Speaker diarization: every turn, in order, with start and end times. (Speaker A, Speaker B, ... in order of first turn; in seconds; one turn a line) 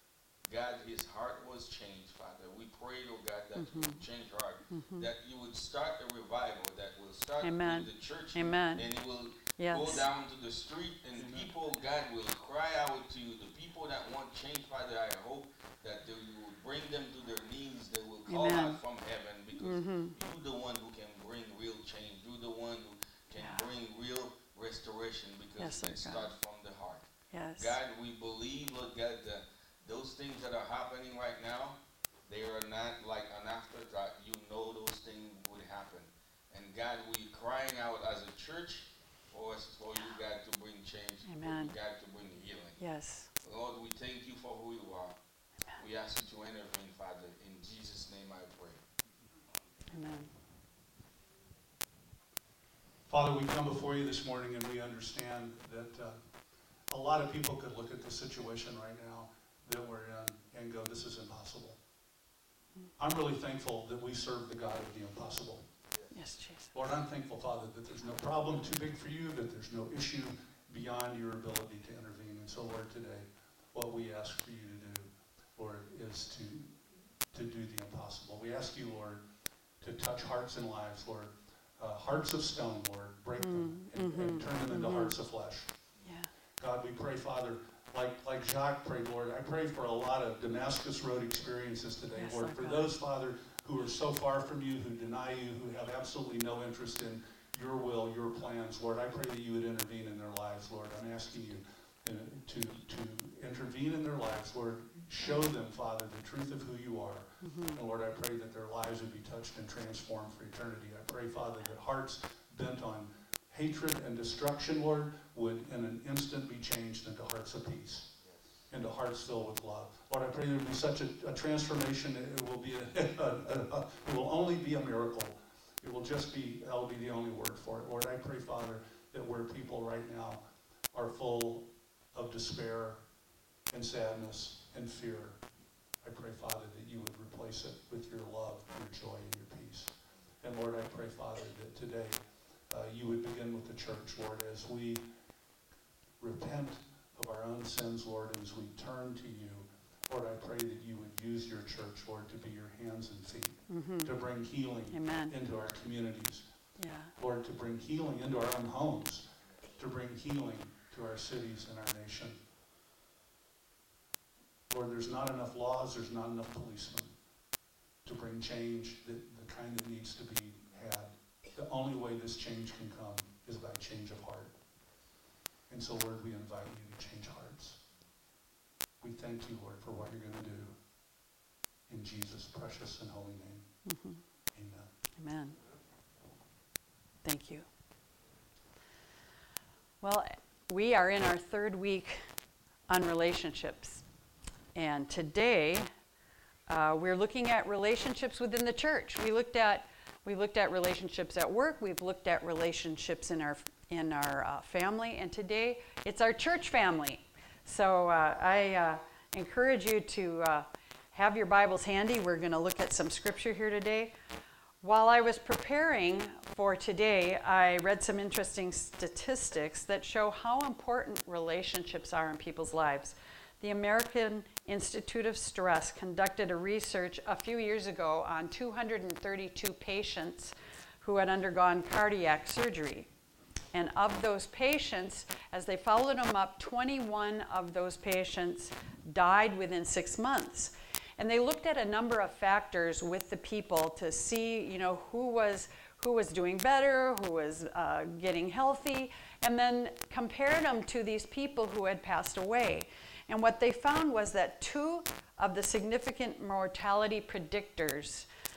Speaker A: 0.4-42.8
Speaker B: 3.5-4.0
Speaker B: 4.7-5.1
Speaker B: 7.4-8.8
Speaker B: 9.6-10.0
Speaker B: 18.3-18.8
Speaker B: 19.6-20.1
Speaker B: 23.3-23.6
Speaker B: 25.6-26.2
Speaker B: 27.3-27.7
Speaker B: 41.3-41.7
Speaker B: 42.8-43.3
Speaker A: 43.4-45.2
Speaker A: 45.8-48.8
Speaker B: 49.9-50.3
Speaker C: 53.1-56.2
Speaker C: 56.9-61.8
Speaker C: 63.0-65.7
Speaker B: 66.1-66.7
Speaker C: 66.7-79.2
Speaker C: 79.8-85.7
Speaker B: 83.4-85.1
Speaker C: 86.6-118.1
Speaker B: 92.1-92.9
Speaker B: 107.4-107.8
Speaker C: 118.7-133.0
Speaker C: 133.7-135.4
Speaker C: 136.0-145.1
Speaker C: 146.2-156.5
Speaker B: 153.7-154.1
Speaker B: 154.9-155.3
Speaker B: 156.8-157.1
Speaker C: 157.2-162.4
Speaker C: 164.7-167.2
Speaker C: 168.0-174.5
Speaker C: 175.7-177.8
Speaker C: 179.0-180.8
Speaker C: 181.9-183.7
Speaker B: 183.8-184.2
Speaker C: 184.5-184.9
Speaker B: 185.2-185.6
Speaker B: 187.2-187.7
Speaker B: 190.0-192.2
Speaker B: 192.9-194.0
Speaker B: 194.7-195.9
Speaker B: 196.7-214.1
Speaker B: 214.8-233.1
Speaker B: 233.7-258.3